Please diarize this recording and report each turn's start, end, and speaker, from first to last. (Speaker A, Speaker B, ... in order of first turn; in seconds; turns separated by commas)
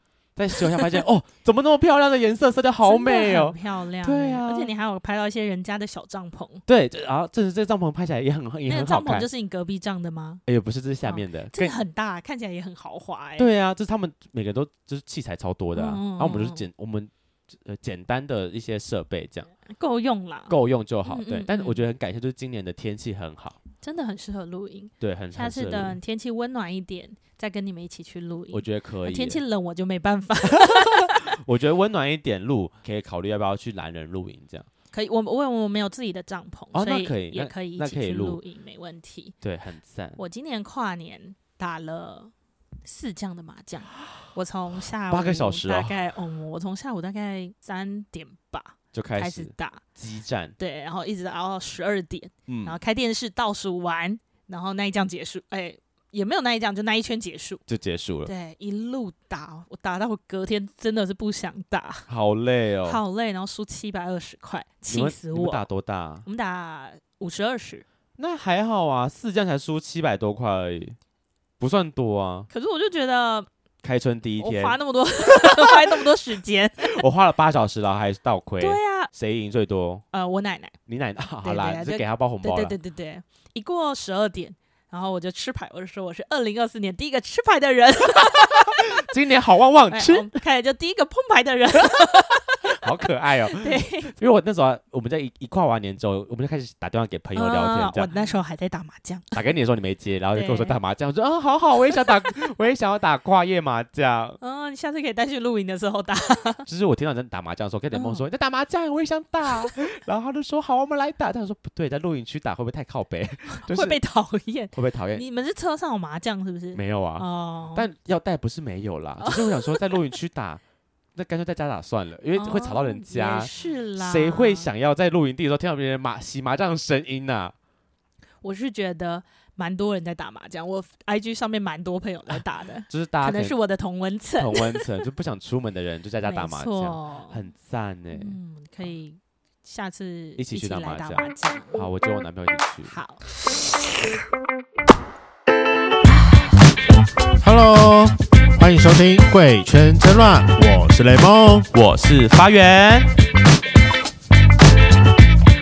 Speaker A: 0.3-4.7, Speaker B: 2.8-6.6, Speaker A: 6.7-9.3, Speaker B: 8.7-10.4, Speaker A: 10.5-11.8, Speaker B: 11.0-13.5, Speaker A: 13.4-19.5, Speaker B: 15.7-16.7, Speaker B: 19.6-20.5, Speaker A: 20.5-23.6, Speaker B: 21.1-21.8, Speaker B: 23.8-31.3, Speaker A: 25.0-26.0, Speaker A: 28.5-29.4, Speaker A: 30.4-34.7, Speaker B: 34.9-39.3, Speaker A: 36.7-38.4, Speaker A: 39.4-40.2, Speaker B: 40.2-42.3, Speaker B: 42.8-49.8, Speaker A: 45.1-46.0, Speaker A: 48.9-50.5, Speaker B: 50.6-57.6, Speaker A: 52.5-52.8, Speaker A: 57.7-58.3, Speaker B: 58.2-62.1, Speaker A: 62.1-63.0, Speaker B: 62.8-65.6, Speaker A: 64.9-66.3, Speaker B: 66.2-67.8, Speaker A: 68.2-71.0, Speaker A: 71.6-72.5, Speaker B: 72.5-73.5, Speaker A: 73.8-76.0, Speaker B: 74.4-77.0, Speaker A: 76.8-80.0, Speaker B: 78.6-79.1, Speaker B: 80.1-80.7, Speaker A: 80.9-82.8, Speaker B: 81.4-88.8, Speaker A: 88.5-90.3, Speaker B: 89.9-92.7, Speaker A: 92.6-98.1, Speaker B: 93.5-94.1, Speaker B: 97.3-99.3, Speaker A: 99.3-104.4, Speaker B: 100.3-100.8, Speaker B: 104.4-106.6, Speaker A: 106.7-114.0, Speaker B: 107.9-108.2, Speaker B: 113.5-117.9, Speaker A: 114.7-115.2, Speaker A: 116.7-120.6, Speaker B: 119.2-120.1, Speaker A: 121.1-127.5, Speaker B: 122.3-124.7, Speaker B: 128.4-135.0, Speaker A: 132.3-133.6, Speaker A: 134.4-138.4, Speaker B: 136.2-137.4, Speaker B: 138.1-141.9, Speaker A: 140.4-143.0, Speaker B: 142.9-143.2, Speaker C: 147.4-151.7, Speaker A: 151.7-153.1